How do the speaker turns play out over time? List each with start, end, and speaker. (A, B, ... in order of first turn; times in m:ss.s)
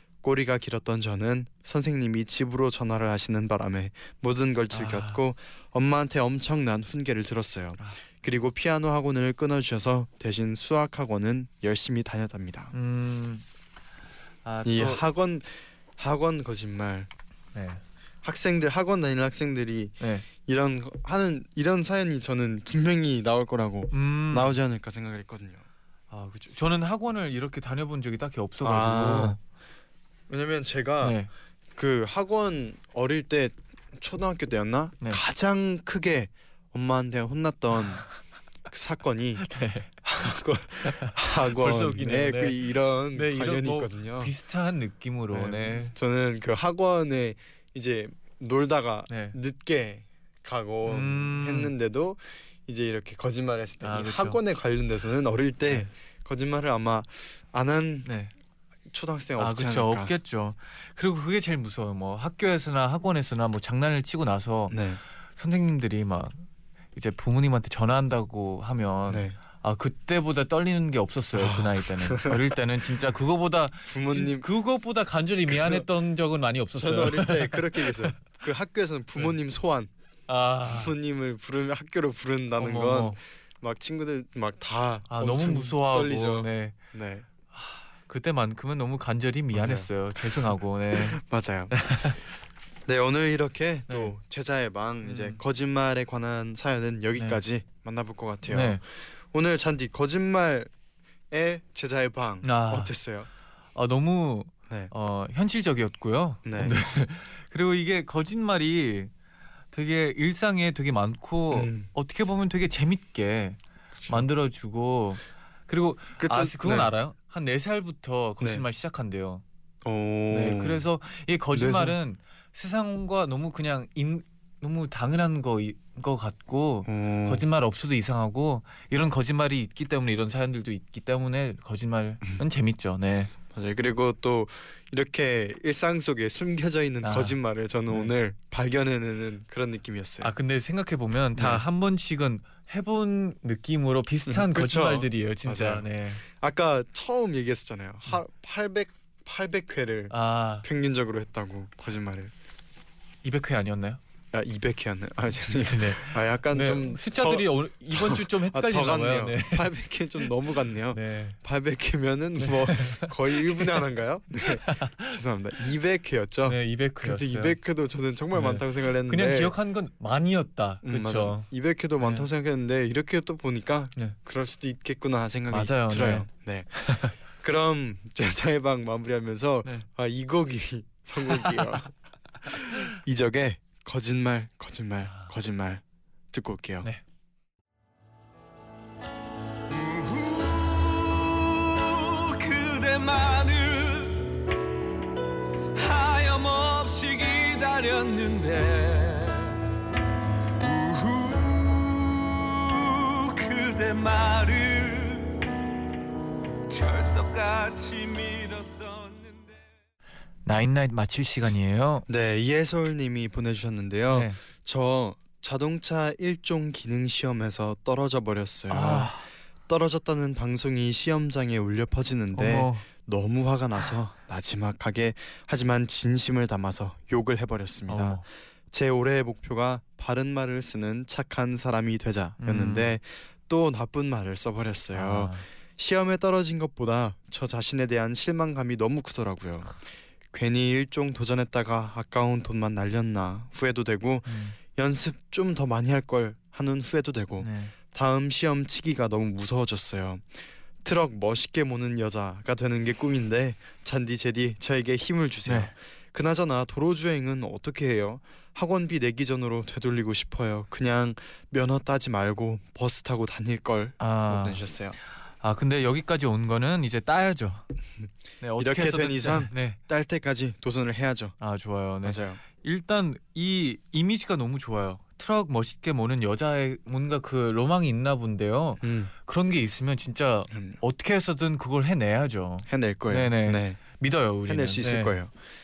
0:00.2-0:12.7 A
0:04.7-0:05.2 B
0:12.7-0:13.4 B
0:14.4-0:15.0 B
0:14.6-0:17.1 A
0:17.5-0:17.8 B
0:18.2-0:25.6 A
0:20.0-0:20.3 B
0:23.9-0:24.6 B
0:26.1-0:29.4 B
0:28.6-0:29.4 A
0:30.3-0:31.2 A
0:31.0-0:31.3 B
0:31.8-0:38.1 A
0:38.7-0:39.5 A
0:39.4-0:39.9 B
0:40.0-0:44.3 A
0:40.8-0:45.9 B
0:45.3-0:58.1 A
0:49.1-0:49.4 B
0:50.9-0:51.7 B
0:53.8-0:54.4 B
0:58.0-0:58.3 B
0:58.9-1:00.1 A
0:59.4-1:04.8 B
1:04.7-1:05.0 A
1:05.4-1:06.4 B
1:07.0-1:18.1 B
1:09.1-1:09.4 A
1:11.4-1:12.4 A
1:13.9-1:14.5 A
1:15.5-1:15.8 A
1:16.8-1:19.9 A
1:20.3-1:20.9 B
1:20.7-1:27.3 A
1:22.6-1:23.2 B
1:25.1-1:26.8 B
1:27.5-1:32.2 B
1:29.5-1:31.7 A
1:32.9-1:40.7 A
1:35.0-1:35.4 B
1:38.5-1:38.8 B
1:41.3-1:43.3 A
1:42.4-1:42.9 B
1:43.8-1:49.1 B
1:46.4-1:46.8 A
1:49.7-1:59.4 B
1:51.5-1:51.9 A
1:56.2-1:56.9 A
1:59.8-2:00.8 A
2:00.3-2:13.3 B
2:01.5-2:02.0 A
2:06.9-2:07.4 A
2:13.5-2:20.3 A
2:17.0-2:17.4 B
2:20.2-2:26.2 B
2:21.4-2:21.6 A
2:24.3-2:32.3 A
2:30.1-2:30.7 B
2:33.2-2:34.0 B
2:34.3-2:49.5 A
2:35.7-2:40.2 B
2:40.9-2:41.4 B
2:42.4-2:43.8 B
2:44.5-2:45.1 B
2:46.5-2:47.6 B
2:48.3-2:51.5 B
2:50.8-3:06.9 A
2:52.0-2:52.3 B
2:55.5-2:57.2 B
3:01.3-3:01.6 B
3:09.7-3:14.3 C
3:15.8-3:19.6 C
3:20.6-3:25.4 C
3:26.7-3:29.6 C
3:30.4-3:32.1 B
3:32.1-3:59.8 A
3:34.1-3:34.4 B
3:38.7-3:39.3 B
3:42.4-3:42.9 B
3:47.9-3:48.2 B
3:52.4-3:52.9 B
3:54.9-3:55.4 B
4:00.3-4:25.0 A
4:04.3-4:04.6 B
4:07.4-4:07.8 B
4:15.5-4:15.7 B
4:24.0-4:24.6 B
4:25.4-4:27.6 B
4:28.0-4:31.4 A
4:28.4-4:29.8 B
4:31.4-4:45.1 B
4:32.0-4:32.4 A
4:38.8-4:39.1 A
4:40.5-4:40.8 A
4:42.7-4:45.3 A